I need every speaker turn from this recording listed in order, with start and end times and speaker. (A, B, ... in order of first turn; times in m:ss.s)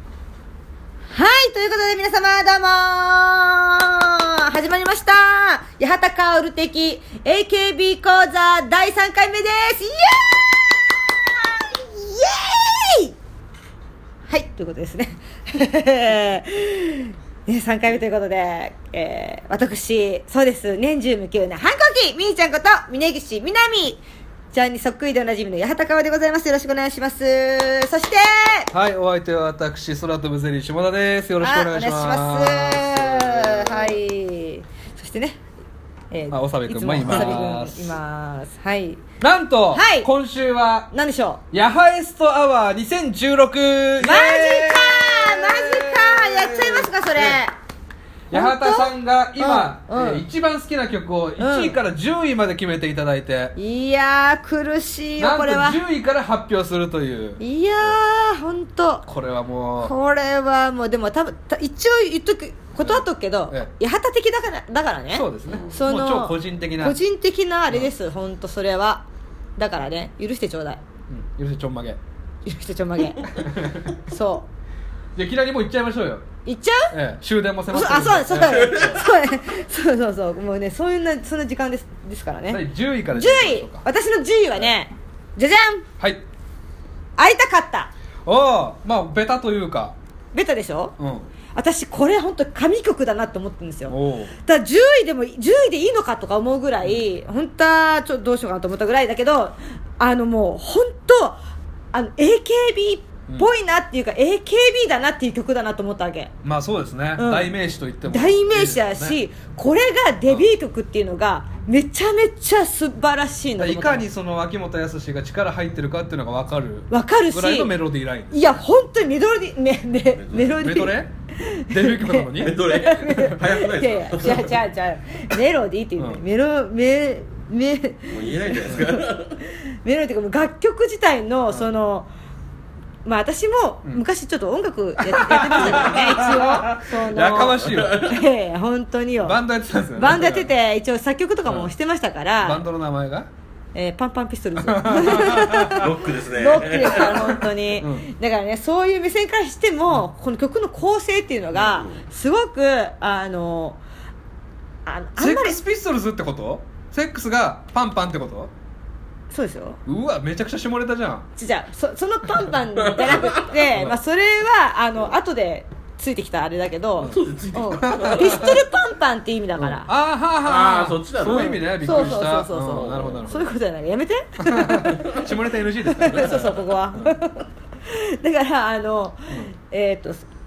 0:01.1-0:13.2 A
0:14.3-0:28.7 A
0:28.7-0:34.0 B
0:31.4-0:35.4 A
0:36.1-0:39.0 A
0:36.3-0:38.0 B
0:39.2-0:40.9 B
0:39.7-0:40.1 A
0:40.9-0:41.4 A
0:41.5-0:47.4 B
0:44.0-0:47.5 A
0:48.3-0:53.6 B
0:48.3-0:50.2 A
0:51.4-0:51.8 A
0:53.6-0:55.8 A
0:55.2-0:58.0 B
0:57.4-0:59.0 A
0:59.0-0:59.9 B
0:59.8-1:09.0 A
1:02.8-1:03.7 B
1:05.1-1:07.0 B
1:05.5-1:05.8 C
1:09.6-1:10.8 A
1:11.1-1:12.0 B
1:12.4-1:13.4 A
1:13.3-1:13.9 B
1:14.0-1:14.5 A
1:15.1-1:16.3 B
1:16.4-1:16.9 A
1:16.9-1:19.0 B
1:17.7-1:25.8 A
1:18.3-1:19.2 C
1:22.5-1:23.8 B
1:27.2-1:27.9 A
1:28.2-1:30.0 B
1:30.3-1:30.9 A
1:31.0-1:31.3 B
1:31.5-1:41.4 A
1:33.9-1:34.3 B
1:41.9-1:46.3 A
1:46.4-1:49.2 B
1:47.2-1:47.5 A
1:48.1-1:54.0 A
1:53.6-1:58.6 B
1:56.9-1:57.7 A
1:58.3-2:08.8 A
2:00.1-2:00.7 C
2:00.4-2:01.1 B
2:01.6-2:03.3 B
2:02.3-2:04.6 C
2:08.1-2:09.4 C
2:09.8-2:12.1 A
2:13.0-2:19.4 A
2:15.0-2:18.1 B
2:17.3-2:18.2 C
2:19.2-2:20.5 B
2:19.9-2:22.6 A
2:21.4-2:21.7 B
2:22.4-2:23.3 B
2:23.8-2:33.8 A
2:24.6-2:25.9 B
2:25.2-2:27.3 C
2:26.8-2:28.1 B
2:31.7-2:32.0 C
2:34.8-2:35.6 A
2:35.2-2:38.5 B
2:39.3-2:39.8 A
2:39.8-2:41.3 B
2:41.4-2:49.9 A
2:42.8-2:43.5 C
2:43.6-2:44.0 B
2:47.0-2:48.5 C
2:47.8-2:48.6 B
2:49.6-2:53.5 B
2:50.4-2:53.2 C
2:51.2-2:55.2 A
2:54.4-2:57.1 B
2:54.9-2:55.2 C
2:55.8-3:00.2 A
2:56.1-2:56.5 C